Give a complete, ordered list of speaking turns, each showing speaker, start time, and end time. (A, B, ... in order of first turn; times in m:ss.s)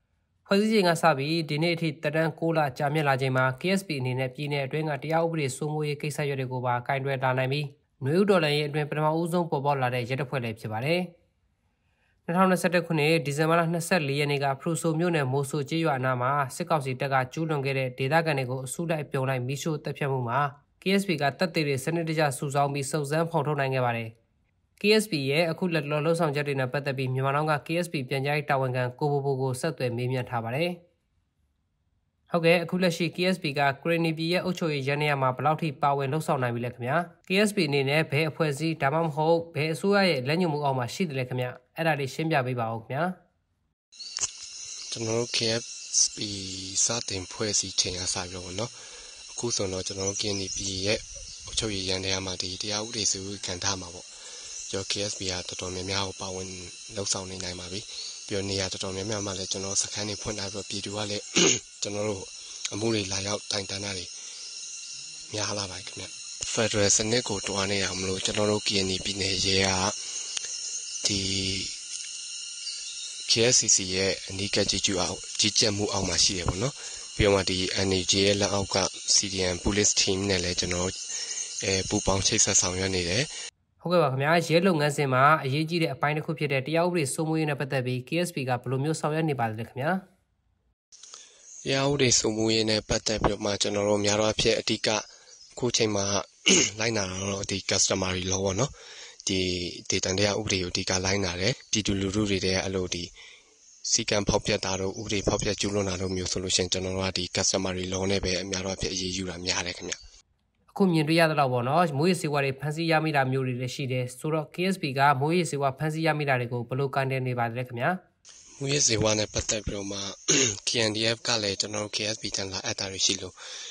0:00.4-0:11.1 A
0:12.3-0:24.1 A
0:24.8-0:30.8 A
0:32.3-0:43.1 A
0:44.9-0:48.7 B
0:49.3-0:54.0 B
0:54.7-1:04.1 B
1:05.3-1:10.0 B
1:11.0-1:11.8 B
1:13.2-1:20.9 B
1:21.6-1:23.3 B
1:23.8-1:30.0 A
1:31.6-1:38.7 B
1:39.2-1:43.1 B
1:43.8-1:50.0 B
1:50.7-1:58.0 A
1:58.6-2:03.3 B